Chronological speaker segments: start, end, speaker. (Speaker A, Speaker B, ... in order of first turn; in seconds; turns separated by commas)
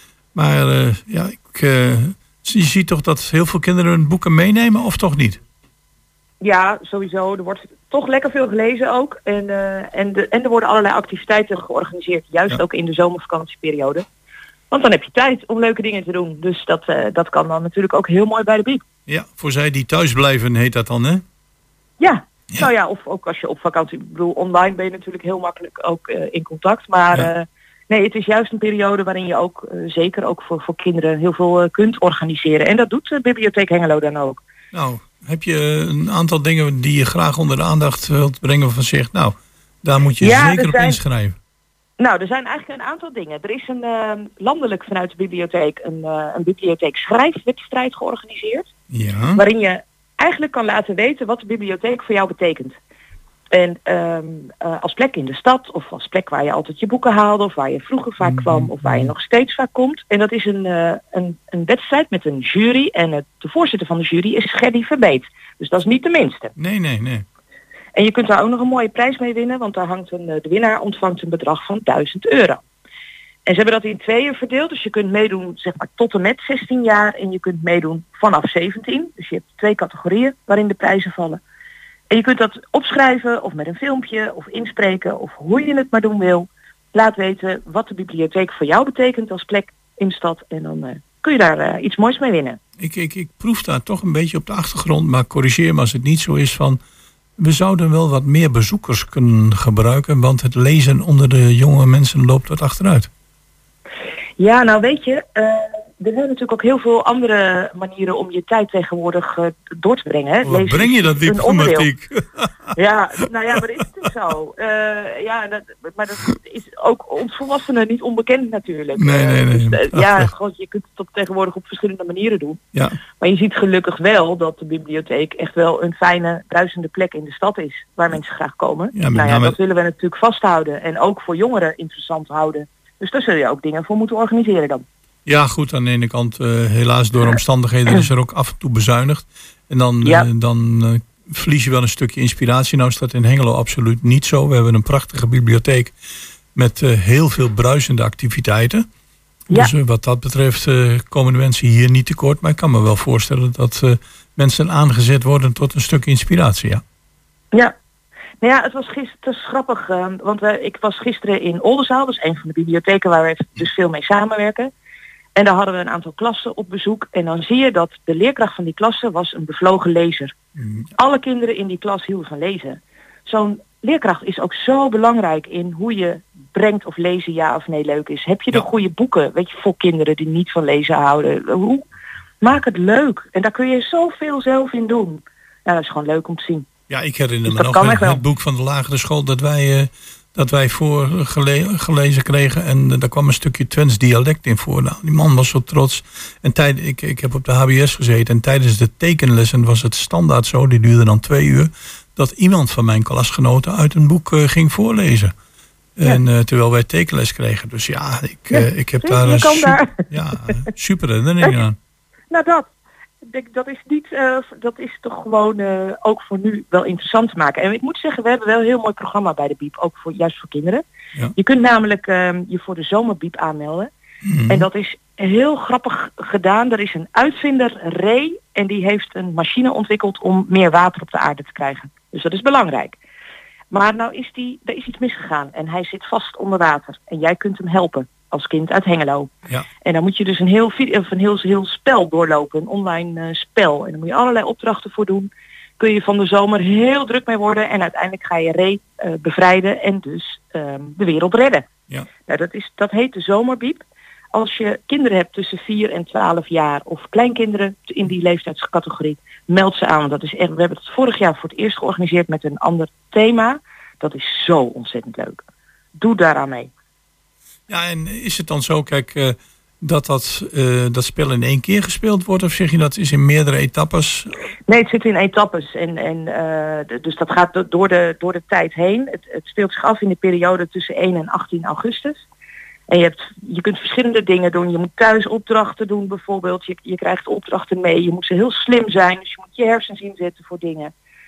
Speaker A: 0.3-5.4, Speaker B: 6.4-14.1, Speaker B: 14.7-18.8, Speaker A: 19.1-21.2, Speaker B: 22.0-34.4, Speaker A: 34.7-41.4, Speaker B: 40.2-41.0, Speaker B: 42.0-48.7, Speaker A: 48.9-49.4, Speaker B: 49.4-52.8, Speaker B: 53.5-66.5, Speaker A: 58.2-59.1, Speaker A: 66.6-67.2, Speaker B: 68.0-72.6, Speaker B: 73.5-81.4, Speaker B: 82.1-92.6, Speaker A: 92.8-96.8, Speaker A: 97.4-103.1, Speaker B: 104.4-111.9, Speaker A: 110.5-112.7, Speaker B: 112.8-122.6, Speaker A: 119.0-120.3, Speaker B: 123.2-134.8, Speaker A: 128.9-129.6, Speaker A: 135.3-145.9, Speaker B: 140.0-140.3, Speaker A: 146.6-148.9, Speaker A: 149.5-156.8, Speaker B: 158.4-164.7, Speaker B: 165.4-170.3, Speaker A: 170.6-170.9, Speaker B: 171.0-181.9, Speaker B: 182.4-186.7, Speaker A: 186.9-205.3, Speaker B: 187.5-188.2, Speaker A: 206.0-211.8, Speaker B: 208.5-210.6, Speaker B: 212.3-212.7, Speaker B: 213.2-220.8, Speaker B: 221.4-223.9, Speaker A: 224.2-224.7, Speaker B: 224.5-233.0, Speaker B: 233.7-239.3, Speaker B: 239.8-251.7, Speaker B: 252.3-265.4, Speaker B: 266.0-266.7, Speaker A: 267.7-274.3, Speaker B: 274.7-282.2, Speaker B: 282.9-290.9